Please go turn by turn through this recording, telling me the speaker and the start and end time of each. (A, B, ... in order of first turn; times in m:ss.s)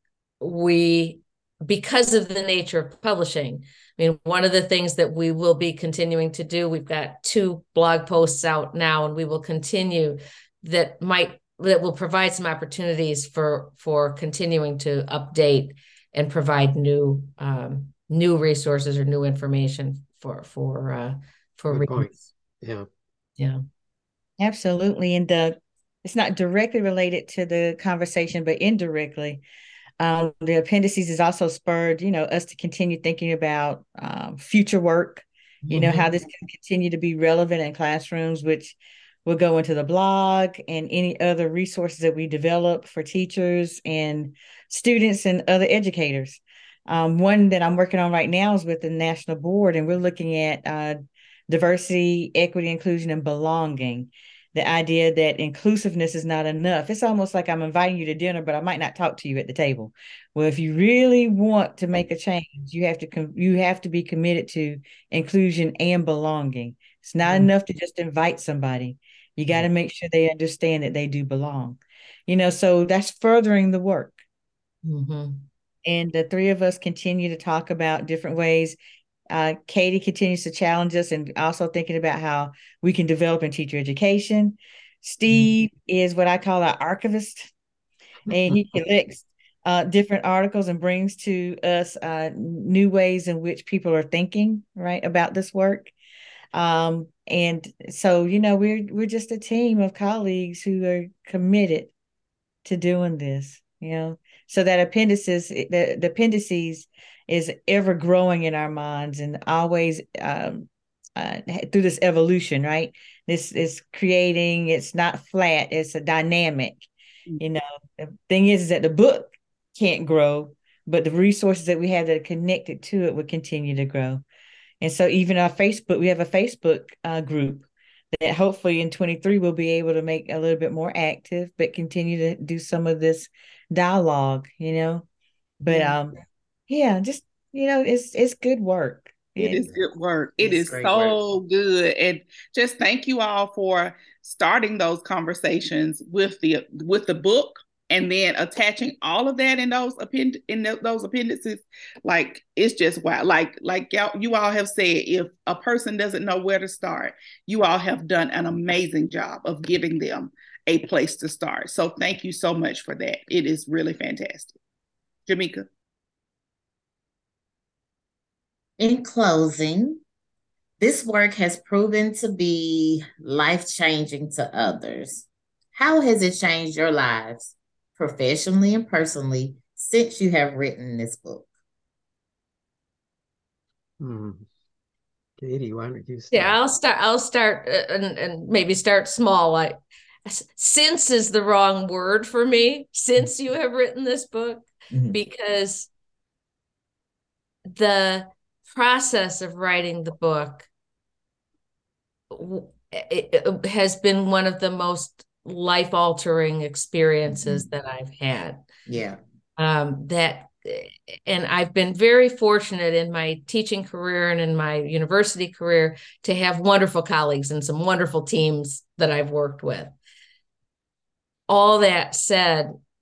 0:00.4-0:22.2 A
0:21.7-0:22.9 B
0:24.4-0:29.4 C
0:30.0-1:14.2 C
0:35.7-0:36.1 A
1:14.8-1:15.5 A
1:15.8-1:18.8 C
1:19.3-1:27.5 C
1:28.3-1:35.9 C
1:36.5-1:41.9 C
1:42.6-1:56.9 C
1:57.4-2:04.2 C
2:04.8-2:15.1 C
2:15.6-2:16.2 C
2:15.7-2:16.0 A
2:16.7-2:19.7 C
2:19.4-2:44.6 D
2:20.4-2:21.2 E
2:45.3-2:45.7 D
2:48.8-2:50.0 E
2:50.8-3:01.5 E
3:04.0-3:04.4 B
3:05.4-3:06.6 B
3:06.3-3:15.9 A
3:14.9-3:15.2 E
3:17.7-3:20.7 A
3:22.3-3:28.7 A
3:27.3-3:27.7 E
3:28.9-3:29.2 E
3:29.6-3:39.9 A
3:41.5-3:42.8 A